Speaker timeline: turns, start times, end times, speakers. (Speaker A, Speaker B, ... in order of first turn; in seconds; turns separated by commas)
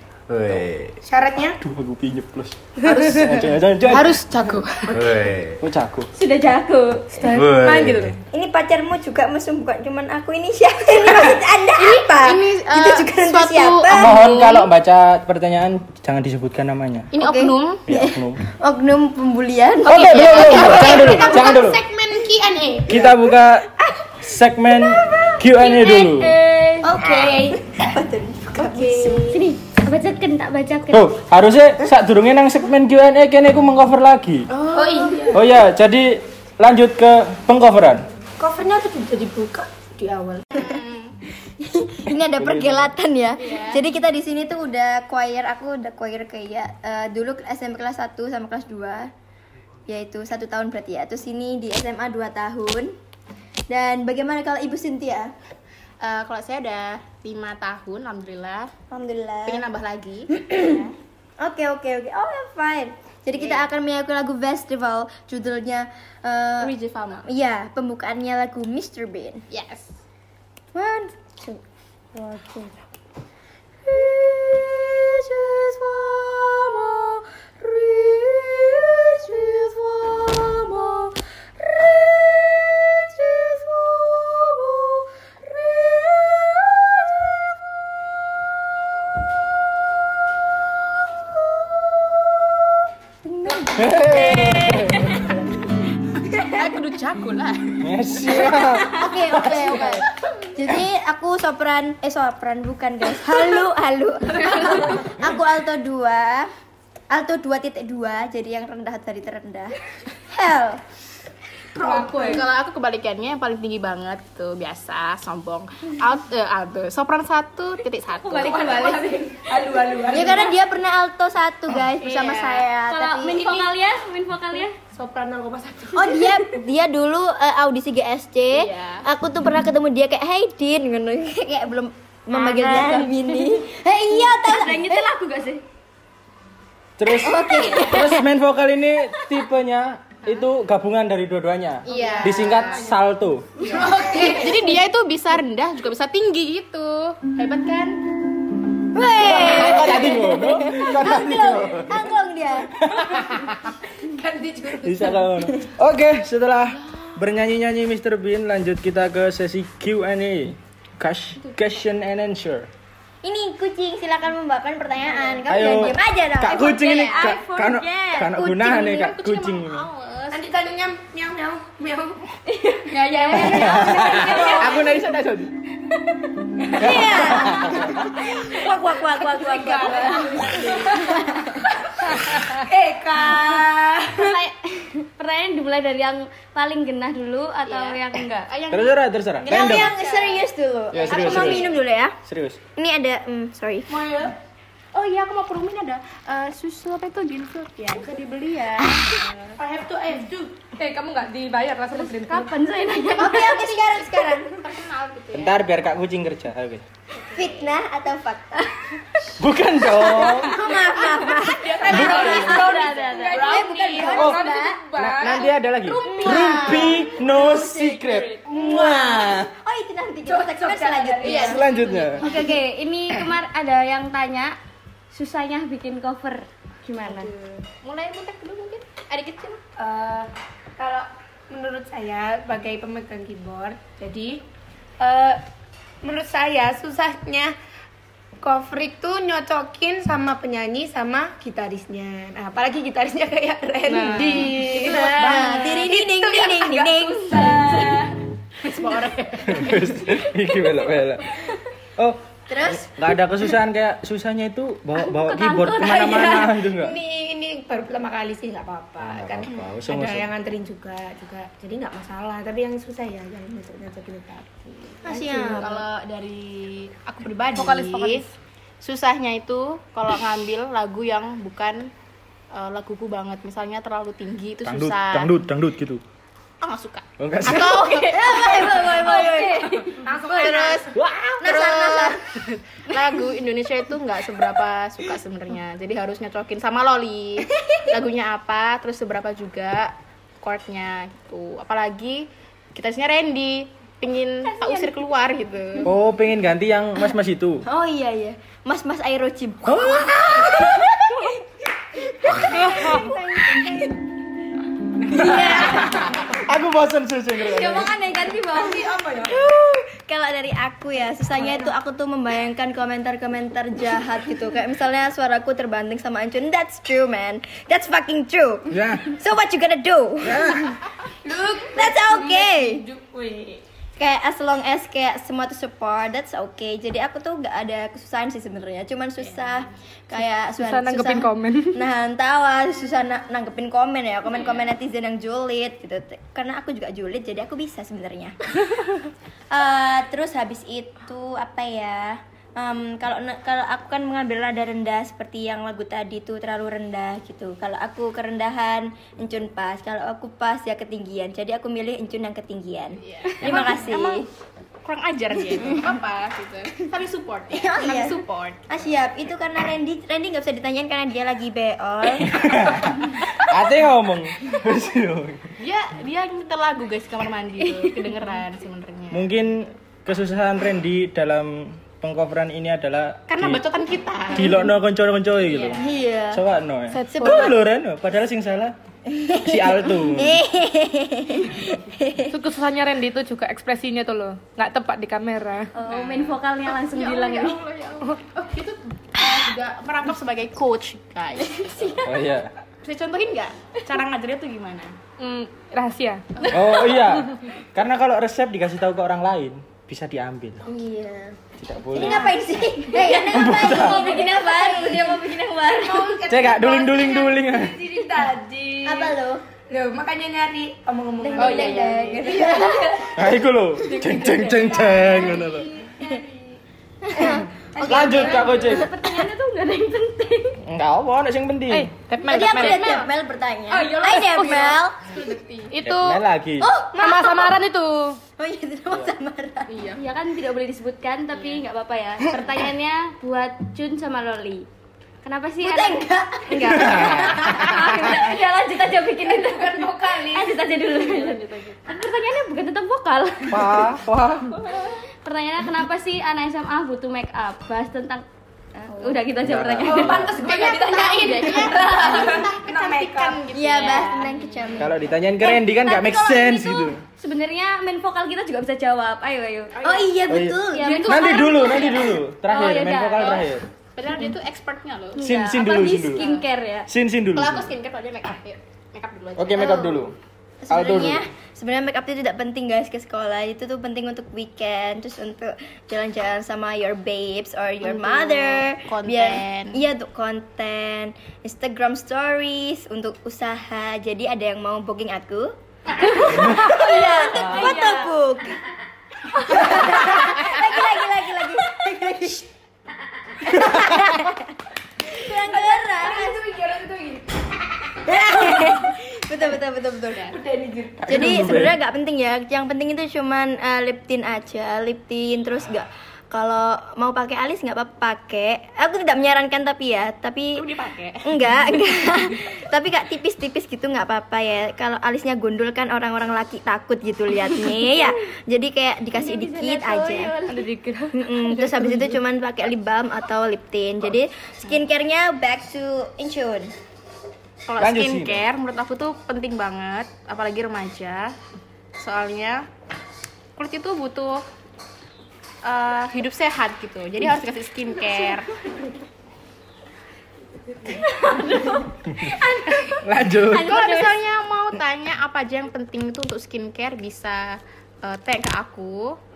Speaker A: 0.3-0.9, Speaker B: 1.0-1.6, Speaker C: 1.6-4.2, Speaker B: 3.9-4.9, Speaker D: 4.2-4.7, Speaker A: 4.9-5.6, Speaker C: 5.6-6.1, Speaker E: 6.2-7.2, Speaker B: 7.2-8.1, Speaker A: 7.2-8.2, Speaker F: 8.3-14.2, Speaker D: 11.7-14.7, Speaker C: 13.9-17.1, Speaker D: 17.1-17.8, Speaker F: 17.1-21.5, Speaker C: 17.9-18.4, Speaker C: 19.8-21.8, Speaker D: 20.0-22.9, Speaker C: 22.9-23.7, Speaker C: 24.2-26.4, Speaker F: 24.8-25.4, Speaker E: 25.6-26.9, Speaker F: 26.8-29.4, Speaker B: 26.9-27.6, Speaker B: 28.6-29.2, Speaker E: 29.3-31.1, Speaker C: 30.9-34.5, Speaker B: 34.6-35.4, Speaker D: 34.7-35.2, Speaker C: 35.3-38.0, Speaker B: 38.4-40.4, Speaker D: 40.5-41.1, Speaker F: 41.6-49.1, Speaker C: 42.4-42.9, Speaker D: 43.4-43.8, Speaker F: 49.9-52.9, Speaker F: 53.7-55.3, Speaker D: 56.0-58.7, Speaker F: 58.9-59.6, Speaker D: 59.5-60.9, Speaker F: 60.3-60.9, Speaker F: 61.4-69.4, Speaker D: 63.3-63.6, Speaker D: 66.6-67.2, Speaker D: 69.5-70.0, Speaker F: 70.7-71.6, Speaker F: 73.8-87.0, Speaker F: 91.3-92.6, Speaker F: 93.2-95.0, Speaker C: 93.7-95.2, Speaker D: 96.4-97.8, Speaker C: 97.8-99.9, Speaker F: 98.4-106.5, Speaker F: 107.1-109.8, Speaker F: 110.3-110.8, Speaker B: 111.8-112.5, Speaker D: 111.8-119.0, Speaker E: 118.2-119.5, Speaker B: 118.4-120.5, Speaker F: 120.1-123.5, Speaker D: 121.9-122.7, Speaker E: 122.9-124.7, Speaker B: 124.8-126.4, Speaker F: 125.9-135.1, Speaker D: 128.5-129.1, Speaker E: 132.3-133.6, Speaker E: 134.1-135.6, Speaker C: 137.0-143.5, Speaker F: 137.1-138.2, Speaker D: 137.6-137.9, Speaker D: 141.8-143.0, Speaker E: 141.9-142.2, Speaker D: 143.6-148.0, Speaker B: 143.8-144.6, Speaker F: 148.9-152.9, Speaker C: 149.2-152.1, Speaker D: 149.3-149.9, Speaker C: 152.8-153.5, Speaker B: 154.0-155.4, Speaker C: 154.8-162.7, Speaker F: 163.2-167.1, Speaker D: 165.1-165.4, Speaker C: 165.5-169.9, Speaker E: 166.5-168.4, Speaker F: 168.3-168.9, Speaker D: 168.7-170.6, Speaker B: 170.3-172.2, Speaker E: 172.5-174.9, Speaker D: 172.9-174.6, Speaker B: 173.0-174.6, Speaker C: 173.3-175.5, Speaker F: 176.7-181.6, Speaker C: 176.8-177.9, Speaker E: 178.5-180.7, Speaker B: 179.1-180.9, Speaker D: 179.9-180.6, Speaker F: 182.7-183.8, Speaker B: 183.2-183.5, Speaker E: 184.2-188.5, Speaker D: 187.6-190.4, Speaker C: 188.7-189.9, Speaker F: 189.4-192.2, Speaker C: 190.9-191.7, Speaker D: 191.0-191.7, Speaker C: 192.2-192.6, Speaker F: 192.8-193.9, Speaker B: 193.9-194.3, Speaker D: 194.9-199.6, Speaker B: 199.6-200.6, Speaker G: 200.8-202.5, Speaker E: 201.9-203.6, Speaker D: 202.9-205.6, Speaker F: 203.2-204.6, Speaker C: 205.3-206.8, Speaker D: 207.3-207.7, Speaker F: 207.3-208.7, Speaker C: 209.4-210.5, Speaker F: 210.2-214.8, Speaker D: 210.5-214.2, Speaker C: 211.9-212.5, Speaker E: 211.9-213.7, Speaker G: 212.8-215.4, Speaker B: 213.1-214.3, Speaker C: 214.0-214.4, Speaker C: 214.9-219.5, Speaker D: 215.8-217.0, Speaker F: 216.0-217.9, Speaker B: 216.3-216.9, Speaker F: 218.4-221.7, Speaker B: 220.2-222.1, Speaker D: 221.2-222.2, Speaker C: 221.4-222.2, Speaker F: 222.2-222.4, Speaker E: 222.2-224.5, Speaker E: 225.1-227.3, Speaker D: 227.7-229.6, Speaker B: 229.8-234.4, Speaker B: 235.0-235.4, Speaker B: 236.0-237.5, Speaker B: 238.4-248.1, Speaker D: 243.9-245.2, Speaker F: 244.8-247.9, Speaker D: 248.6-249.8, Speaker B: 248.7-249.1, Speaker C: 249.5-251.2, Speaker C: 252.0-256.9, Speaker F: 252.5-252.9, Speaker E: 255.2-256.5, Speaker B: 255.8-265.7, Speaker C: 259.0-260.3, Speaker F: 265.1-265.8, Speaker D: 265.1-268.2, Speaker G: 267.5-268.3, Speaker D: 268.8-271.9, Speaker D: 272.5-275.3, Speaker C: 274.6-276.0, Speaker D: 276.6-279.4, Speaker C: 277.2-278.1, Speaker F: 278.1-280.0, Speaker E: 278.3-279.9, Speaker G: 280.0-280.9, Speaker D: 280.3-295.9, Speaker F: 281.4-282.2, Speaker C: 295.8-297.6, Speaker F: 297.6-301.4, Speaker C: 299.6-300.7, Speaker F: 302.0-303.9, Speaker F: 305.1-306.1, Speaker B: 305.1-305.9, Speaker C: 306.4-307.9, Speaker B: 307.5-309.5, Speaker E: 307.7-308.8, Speaker F: 309.2-320.8, Speaker C: 318.7-319.1, Speaker C: 320.2-320.7, Speaker B: 321.2-323.6, Speaker F: 321.7-322.8, Speaker F: 324.0-338.5, Speaker D: 329.2-329.6, Speaker G: 330.6-331.8, Speaker D: 334.3-334.6, Speaker F: 339.5-354.3, Speaker D: 353.0-354.3, Speaker D: 354.8-358.6, Speaker F: 357.5-362.8, Speaker C: 362.2-365.5, Speaker D: 365.6-369.3, Speaker C: 369.1-373.6, Speaker D: 373.3-374.7, Speaker C: 374.3-378.7, Speaker D: 375.4-375.8, Speaker F: 375.8-376.4, Speaker G: 376.9-377.5, Speaker F: 377.1-377.5, Speaker F: 379.1-382.4, Speaker C: 379.4-380.4, Speaker G: 382.3-385.7, Speaker E: 385.7-387.6, Speaker D: 385.9-392.0, Speaker C: 392.0-392.5, Speaker D: 392.8-394.9, Speaker G: 395.2-396.2, Speaker D: 396.4-396.8, Speaker C: 396.5-400.7, Speaker F: 400.6-401.4, Speaker C: 401.6-402.3, Speaker F: 401.9-406.1, Speaker E: 402.9-406.0, Speaker C: 403.3-404.1, Speaker B: 405.8-409.2, Speaker C: 406.3-407.8, Speaker F: 408.8-409.4, Speaker B: 409.7-412.7, Speaker F: 411.2-413.1, Speaker D: 411.4-412.2, Speaker E: 411.4-412.6, Speaker C: 413.1-415.7, Speaker B: 413.9-415.5, Speaker E: 415.1-416.2, Speaker F: 417.0-418.7, Speaker B: 417.8-418.6, Speaker C: 417.8-418.9, Speaker E: 418.0-420.6, Speaker C: 420.6-421.9, Speaker G: 421.7-423.0, Speaker F: 422.2-425.0, Speaker D: 422.4-423.0, Speaker D: 423.8-425.7, Speaker G: 425.7-426.2, Speaker C: 425.9-426.7, Speaker F: 426.6-427.6, Speaker G: 427.0-428.2, Speaker F: 428.4-429.8, Speaker D: 429.7-430.0, Speaker E: 430.0-434.7, Speaker D: 431.3-431.6, Speaker E: 435.2-443.8, Speaker F: 435.6-437.3, Speaker D: 436.5-437.8, Speaker B: 439.3-441.4, Speaker C: 443.5-444.6, Speaker E: 445.2-448.2, Speaker F: 448.8-449.2, Speaker E: 448.9-450.6, Speaker C: 449.4-450.3, Speaker B: 449.9-453.5, Speaker D: 450.3-454.3, Speaker F: 453.5-455.0, Speaker E: 453.8-454.2, Speaker C: 454.8-457.0, Speaker E: 455.4-459.9, Speaker D: 459.8-460.2, Speaker F: 459.8-461.1, Speaker C: 460.3-463.6, Speaker E: 460.7-463.4, Speaker D: 460.8-462.1, Speaker D: 463.2-466.5, Speaker E: 465.1-466.9, Speaker C: 465.2-466.2, Speaker C: 466.9-467.7, Speaker D: 467.3-470.0, Speaker C: 469.4-470.1, Speaker F: 470.6-488.6, Speaker C: 470.7-471.2, Speaker D: 477.8-479.8, Speaker E: 486.0-488.1, Speaker D: 486.0-486.5, Speaker F: 489.4-492.4, Speaker F: 493.4-494.5, Speaker C: 493.6-493.8, Speaker F: 495.0-496.4, Speaker B: 495.2-497.4, Speaker F: 498.0-500.3, Speaker B: 500.3-501.1, Speaker C: 501.0-501.8, Speaker F: 501.1-510.7, Speaker D: 510.5-511.8, Speaker F: 511.2-520.4, Speaker E: 519.1-521.1, Speaker F: 521.1-526.7, Speaker G: 521.5-521.9, Speaker D: 527.6-531.3, Speaker C: 527.8-528.4, Speaker D: 532.0-532.6, Speaker D: 533.5-534.4, Speaker D: 535.6-538.5, Speaker E: 540.9-544.1, Speaker C: 543.0-543.8, Speaker D: 543.5-549.2